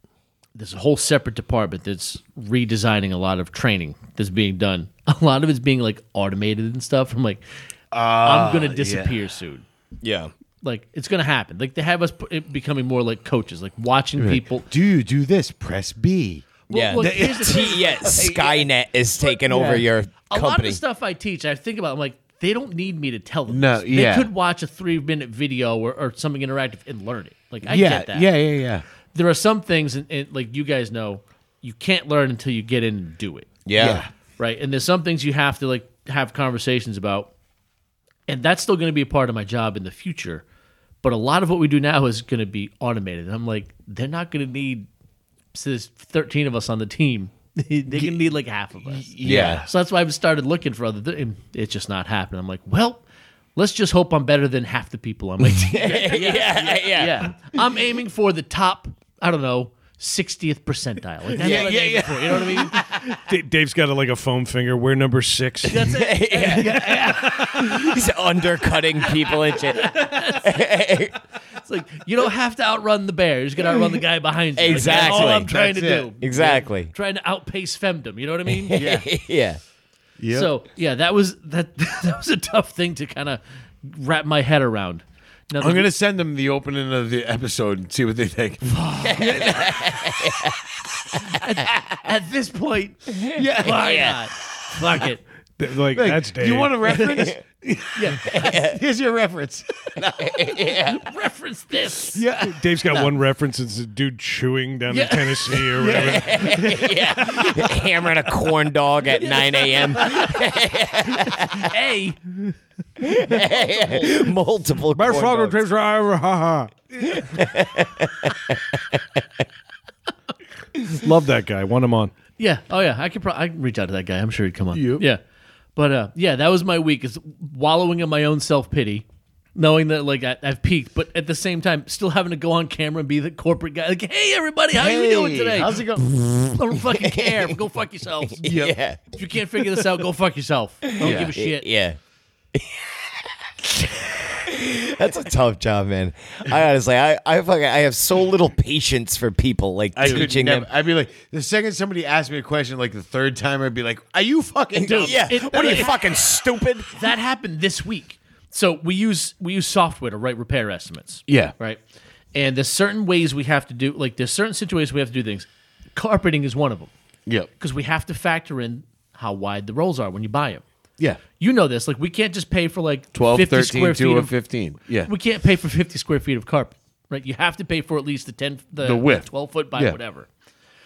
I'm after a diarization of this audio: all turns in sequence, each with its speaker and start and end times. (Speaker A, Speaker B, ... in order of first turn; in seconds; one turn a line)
Speaker A: 0.5-7.4
Speaker B: 7.9-9.2
Speaker A: 8.2-9.6
Speaker C: 10.0-10.3
Speaker A: 10.6-14.7
Speaker B: 14.2-18.7
Speaker A: 16.7-18.2
Speaker C: 16.7-20.8
Speaker B: 19.4-19.8
Speaker A: 20.3-28.3
Speaker B: 23.5-24.3
Speaker B: 27.6-28.8
Speaker A: 29.1-33.6
Speaker C: 33.6-34.0
Speaker B: 33.8-34.1
Speaker A: 34.4-37.3
Speaker A: 38.3-40.4
Speaker A: 41.0-44.9
Speaker A: 45.5-53.0
Speaker B: 48.8-49.7
Speaker C: 49.2-49.6
Speaker A: 53.5-62.8
Speaker C: 55.7-57.3
Speaker B: 61.3-62.8
Speaker C: 61.4-61.7
Speaker D: 63.1-65.8
Speaker A: 65.6-68.0
Speaker C: 65.7-71.2
Speaker B: 66.6-66.9
Speaker A: 69.0-70.7
Speaker A: 71.6-78.8
Speaker C: 74.5-75.5
Speaker B: 74.7-76.1
Speaker C: 76.2-76.9
Speaker C: 78.5-79.6
Speaker B: 78.7-79.1
Speaker B: 80.2-80.5
Speaker A: 80.3-85.9
Speaker B: 85.6-89.6
Speaker A: 88.7-89.6
Speaker C: 89.0-90.6
Speaker A: 91.3-95.2
Speaker C: 93.1-94.2
Speaker B: 93.3-94.0
Speaker D: 95.6-96.9
Speaker B: 95.9-100.0
Speaker A: 97.9-98.3
Speaker C: 98.3-98.8
Speaker C: 100.0-101.0
Speaker A: 100.8-102.2
Speaker B: 102.1-103.1
Speaker D: 102.4-106.4
Speaker A: 104.9-107.7
Speaker B: 105.8-106.8
Speaker C: 106.0-111.7
Speaker A: 109.2-110.5
Speaker A: 111.4-112.2
Speaker C: 113.0-115.6
Speaker D: 114.9-116.7
Speaker C: 117.1-119.2
Speaker D: 120.9-122.1
Speaker A: 122.4-125.2
Speaker B: 124.7-125.0
Speaker A: 125.8-129.0
Speaker A: 129.5-135.8
Speaker B: 134.7-136.1
Speaker C: 136.2-137.5
Speaker A: 136.5-138.5
Speaker C: 138.3-139.0
Speaker B: 138.4-138.7
Speaker A: 139.1-141.7
Speaker C: 140.9-142.0
Speaker B: 141.0-141.3
Speaker C: 142.5-150.7
Speaker B: 149.9-156.1
Speaker A: 150.0-150.3
Speaker C: 154.8-156.9
Speaker A: 154.8-155.9
Speaker A: 156.9-161.8
Speaker B: 161.3-161.5
Speaker A: 162.3-166.9
Speaker A: 167.6-170.6
Speaker A: 171.4-174.3
Speaker B: 173.1-175.1
Speaker A: 174.9-180.3
Speaker B: 178.8-180.0